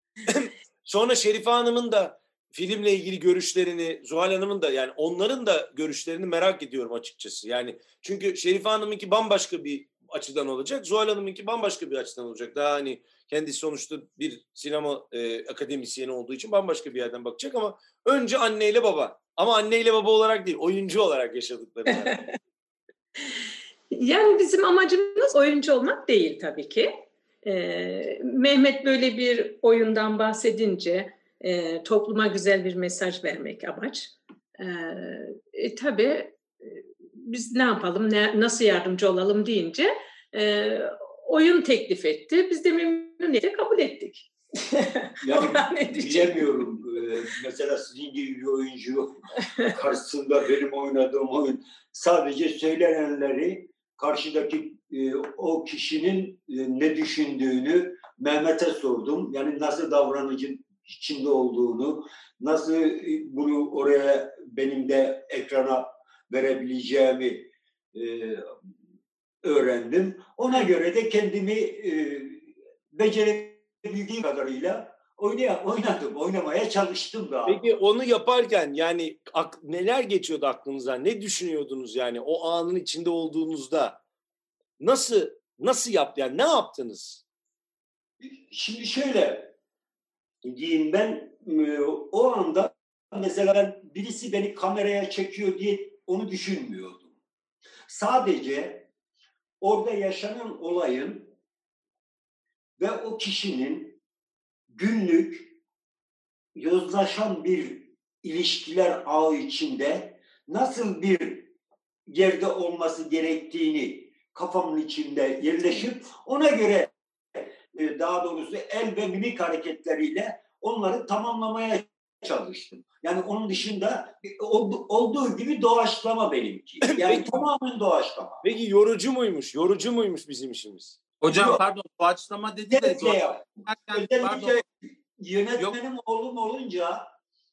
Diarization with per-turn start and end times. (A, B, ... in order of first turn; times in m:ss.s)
0:00.2-0:22.2 A
0:23.9-0:46.4 B
0:45.2-0:49.2 C
0:49.8-1:08.5 C
1:09.4-1:17.6 C
1:17.4-1:24.0 A
1:24.8-1:27.2 A
1:28.2-1:29.5 C
1:30.4-1:37.1 C
1:37.9-1:38.9 C
1:39.6-1:41.3 C
1:42.8-1:44.0 C
1:44.7-1:45.6 C
1:46.5-1:51.5 C
1:52.1-2:08.4 C
2:06.8-2:07.4 A
2:08.4-2:11.6 A
2:11.2-2:14.6 D
2:12.7-2:17.1 C